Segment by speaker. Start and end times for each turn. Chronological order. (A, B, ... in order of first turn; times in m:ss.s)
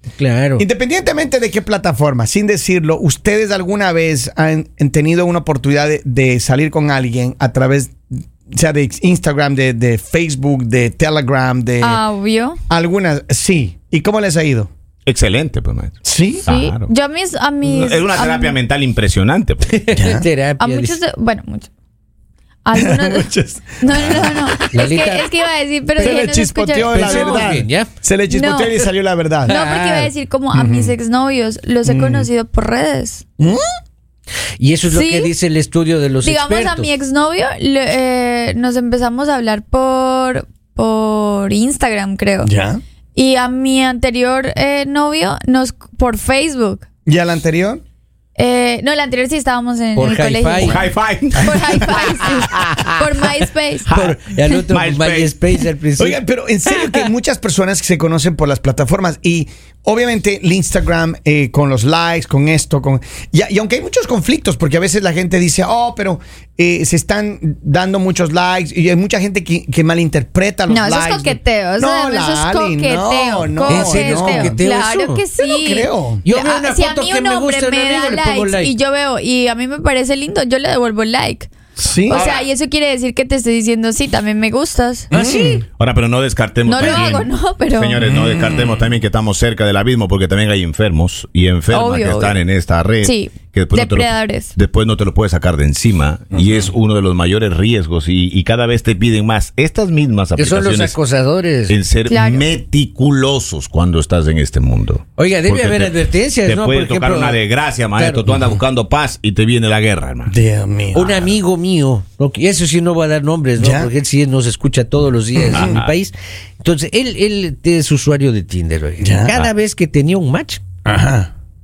0:00.2-0:00.6 A
0:00.6-0:12.0 B
0:11.8-0:12.6 C
0:12.7-0:14.7 B
0:15.0-0:16.9 D
0:16.0-0:16.4 B
0:16.4-0:18.6 C
0:17.6-0:19.9 D
0:19.7-0:21.0 A
0:19.9-0:20.2 B
0:20.6-0:21.7 C
0:22.6-0:23.3 C
0:22.7-0:24.6 B
0:23.8-0:27.5 C
0:24.7-0:25.3 A
0:26.0-0:29.6 B
0:26.8-0:27.9 A
0:28.3-0:28.8 C
0:29.4-0:30.1 A
0:29.4-0:33.2 C
0:30.5-0:31.0 B
0:31.8-0:32.3 B
0:34.6-0:36.9 A
0:34.9-0:35.3 C
0:36.2-0:42.5 C
0:42.4-0:42.8 B
0:43.1-0:46.8 C
0:47.0-0:47.8 B
0:48.4-0:50.8 C
0:50.0-0:50.8 A
0:50.6-0:53.1 D
0:51.4-0:53.9 C
0:53.9-0:57.1 A
0:53.9-0:54.2 D
0:54.7-0:55.4 D
0:56.0-1:14.6 B
1:10.7-1:21.5 C
1:13.6-1:15.2 A
1:15.4-1:16.2 B
1:16.2-1:18.7 A
1:21.8-1:22.3 B
1:22.1-1:22.4 D
1:22.1-1:25.1 C
1:25.1-1:25.6 A
1:25.1-1:25.6 B
1:25.8-1:40.9 D
1:26.6-1:28.1 C
1:26.8-1:27.1 A
1:28.0-1:28.9 B
1:31.7-1:32.4 C
1:33.0-1:34.5 C
1:36.3-1:36.7 B
1:40.4-1:41.8 A
1:41.7-1:50.3 D
1:42.1-1:42.5 C
1:45.2-1:47.4 A
1:48.0-1:48.3 A
1:48.3-1:48.6 B
1:50.3-1:51.3 B
1:50.9-2:00.6 A
1:53.6-1:53.9 B
1:55.3-1:55.8 B
1:55.5-1:55.9 D
1:59.0-1:59.5 B
2:00.8-2:01.3 B